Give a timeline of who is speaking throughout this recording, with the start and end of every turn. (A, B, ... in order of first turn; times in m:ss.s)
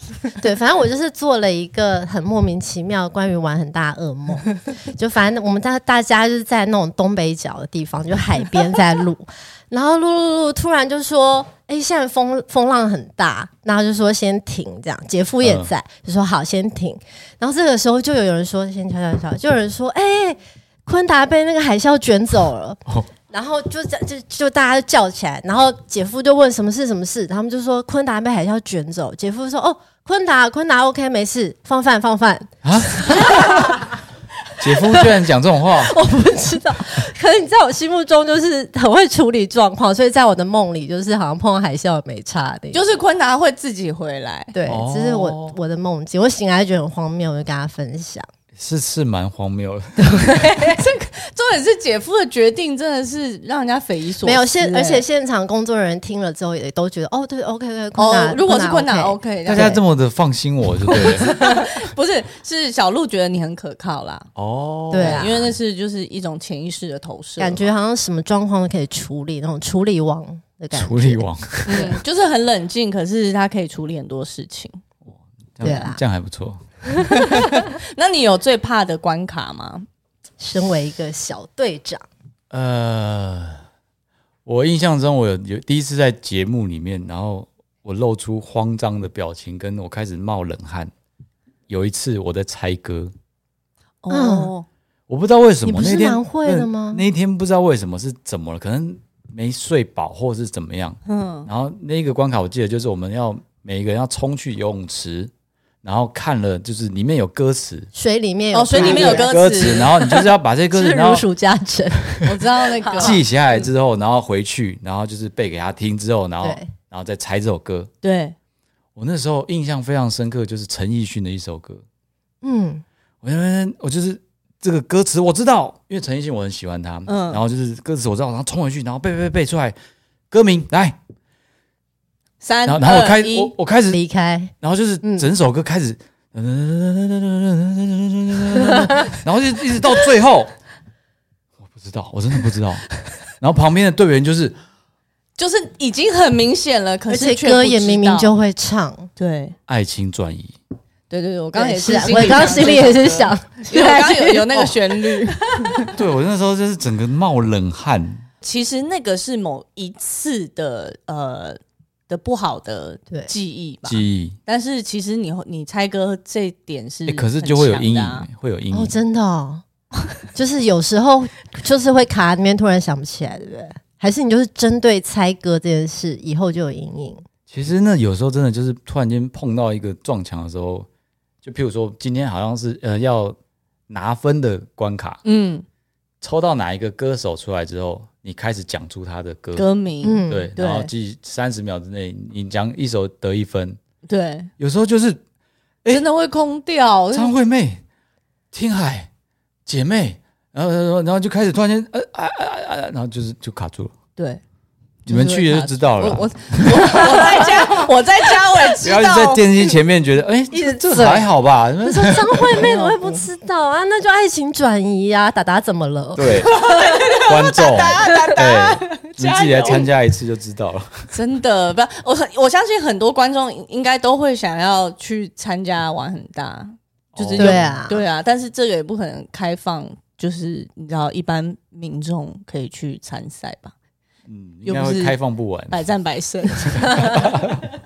0:00.4-0:34.0 A
0:15.4-0:15.7 B
0:32.6-0:33.8 B
0:34.6-0:36.0 B
0:34.8-0:35.1 A
0:35.7-0:42.9 A
0:42.7-0:44.5 C
0:44.5-0:48.3 A
0:44.7-0:45.6 B
0:48.6-0:50.3 B
0:50.0-0:50.8 A
0:50.4-0:55.0 C
0:54.2-0:59.8 A
0:58.0-0:59.8 C
0:59.5-1:01.4 B
1:00.9-1:04.3 C
1:01.3-1:01.6 A
1:04.4-1:05.3 B
1:04.9-1:05.5 A
1:04.9-1:07.7 C
1:07.4-1:12.0 A
1:10.7-1:12.0 B
1:11.7-1:14.8 C
1:15.1-1:16.6 B
1:15.6-1:16.0 A
1:17.0-1:17.5 A
1:17.1-1:19.8 C
1:20.4-1:22.0 A
1:22.5-1:23.6 B
1:24.4-1:30.9 B
1:31.7-1:33.1 B
1:34.0-1:34.6 C
1:34.1-1:34.5 A
1:35.1-1:45.3 B
1:35.6-1:37.0 A
1:41.0-1:41.5 C
1:45.8-1:47.9 B
1:47.9-1:52.3 A
1:48.5-1:49.8 C
1:48.7-1:51.2 B
1:52.2-1:53.2 C
1:52.8-1:53.2 A
1:53.0-1:57.9 B
1:56.4-1:56.7 A
1:58.0-1:58.4 C
1:59.0-2:01.8 B
2:02.4-2:02.8 A
2:03.2-2:09.7 B
2:07.1-2:07.4 C
2:10.3-2:11.0 B
2:12.4-2:13.5 C
2:12.6-2:14.0 B
2:13.9-2:14.5 A
2:14.6-2:20.5 B
2:21.6-2:24.6 B
2:25.4-2:28.3 C
2:27.1-2:29.1 A
2:29.2-2:29.6 C
2:29.7-2:30.5 B
2:31.1-2:35.9 C
2:31.5-2:35.9 A
2:35.9-2:38.2 B
2:38.4-2:48.3 C
2:43.8-2:44.4 B
2:47.1-2:48.9 B
2:48.7-2:49.6 A
2:50.3-2:57.2 A
2:57.5-3:00.9 B
3:01.4-3:03.4 B
3:03.9-3:05.2 B
3:05.2-3:05.6 C
3:06.2-3:09.7 B
3:09.5-3:10.9 C
3:10.0-3:10.5 A
3:10.3-3:13.8 B
3:14.1-3:14.5 C
3:14.6-3:15.2 B
3:15.9-3:17.3 C
3:17.1-3:17.8 B
3:18.5-3:19.1 B
3:19.6-3:23.9 B
3:24.2-3:24.4 C
3:25.0-3:27.3 B
3:25.0-3:29.5 C
3:28.8-3:32.7 B
3:30.5-3:31.3 A
3:31.8-3:37.2 A
3:32.5-3:33.2 C
3:36.2-3:36.6 B
3:36.4-3:39.9 C
3:37.2-3:41.0 B
3:41.1-3:53.7 C
3:47.1-3:47.8 B
3:47.4-3:48.0 A
3:54.3-3:55.8 B
3:54.6-3:55.2 C
3:55.7-3:57.2 C
3:56.8-3:57.3 A
3:56.9-3:57.6 B